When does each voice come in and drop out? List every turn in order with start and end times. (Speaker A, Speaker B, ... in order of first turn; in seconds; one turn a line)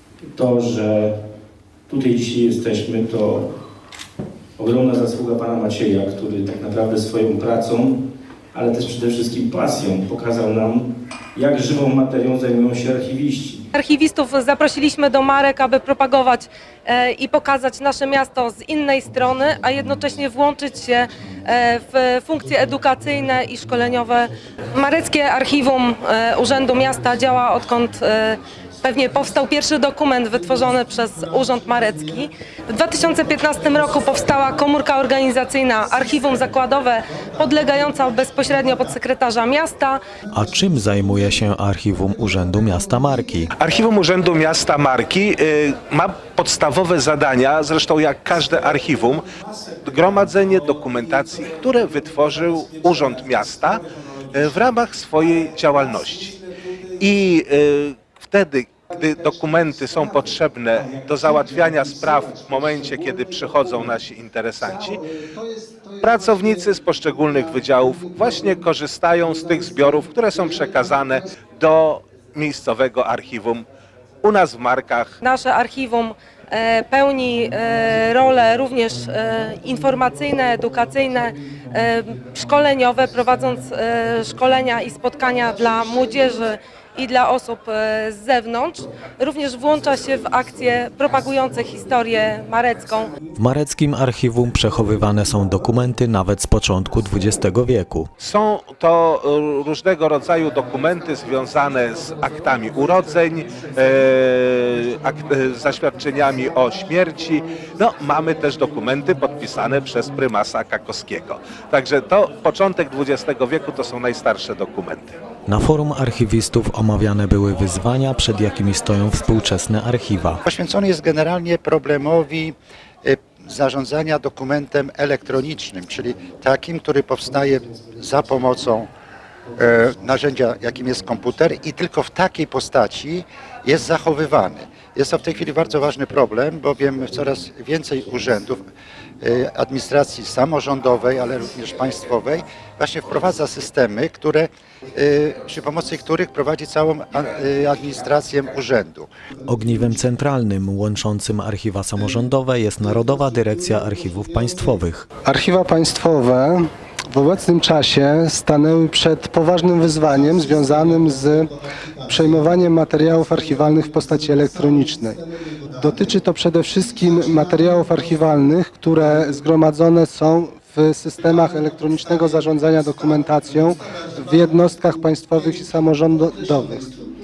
Speaker A: 0.3-1.1
Speaker A: 1.9-3.5
Speaker A: 4.6-13.6
Speaker B: 13.7-40.0
Speaker C: 40.3-43.5
Speaker D: 43.6-49.2
Speaker D: 49.8-56.4
Speaker D: 57.0-65.0
Speaker D: 66.0-73.7
Speaker D: 74.2-75.2
Speaker B: 75.2-93.1
Speaker C: 93.4-98.1
Speaker D: 98.2-115.1
Speaker C: 115.5-120.4
Speaker E: 120.4-128.9
Speaker E: 129.6-138.7
Speaker E: 139.2-149.1
Speaker C: 149.4-155.1
Speaker F: 155.2-161.5
Speaker F: 162.0-165.2
Speaker F: 165.8-176.9